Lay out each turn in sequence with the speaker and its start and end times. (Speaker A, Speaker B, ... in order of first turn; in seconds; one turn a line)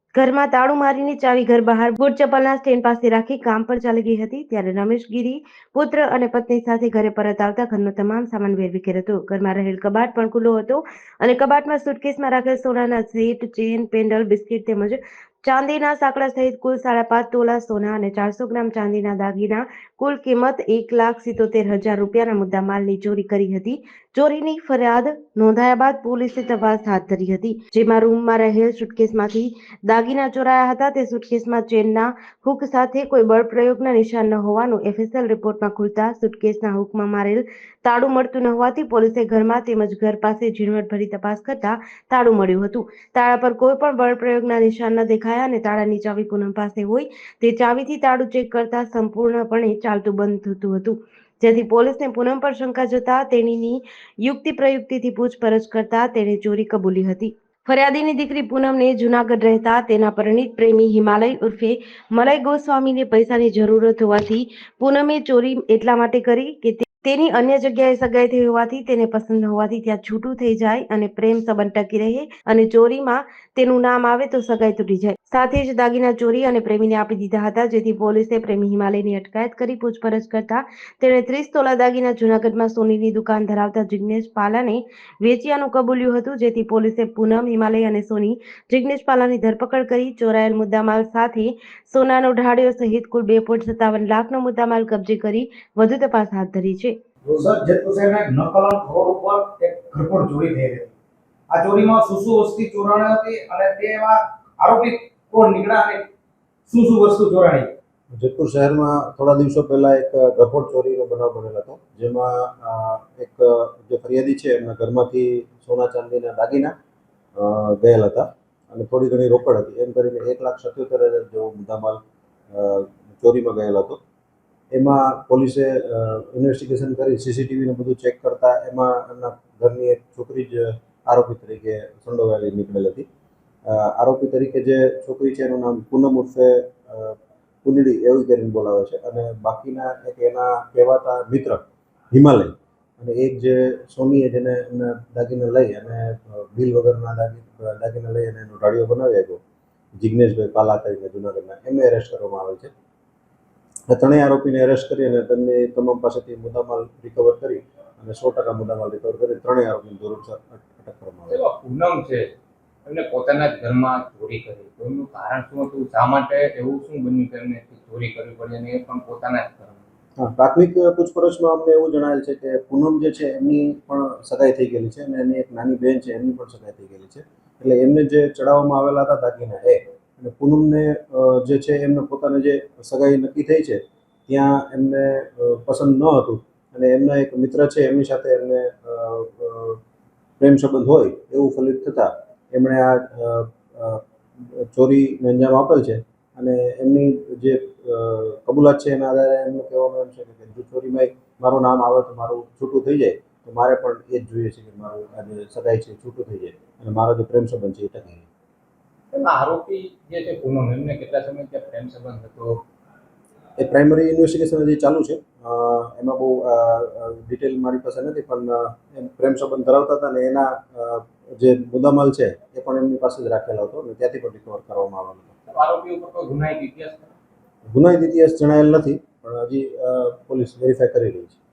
Speaker A: 0.1-97.0
Speaker B: 97.2-100.9
Speaker B: 101.5-106.1
Speaker B: 106.7-107.7
Speaker C: 108.1-116.7
Speaker C: 117.4-124.0
Speaker C: 124.7-133.1
Speaker C: 133.7-141.6
Speaker C: 142.1-149.4
Speaker C: 150.0-152.7
Speaker C: 153.9-161.4
Speaker D: 161.3-162.3
Speaker D: 162.8-169.8
Speaker C: 170.2-189.8
Speaker C: 190.4-208.3
Speaker D: 209.1-212.6
Speaker C: 213.6-225.3
Speaker D: 225.5-227.1
Speaker C: 227.7-231.4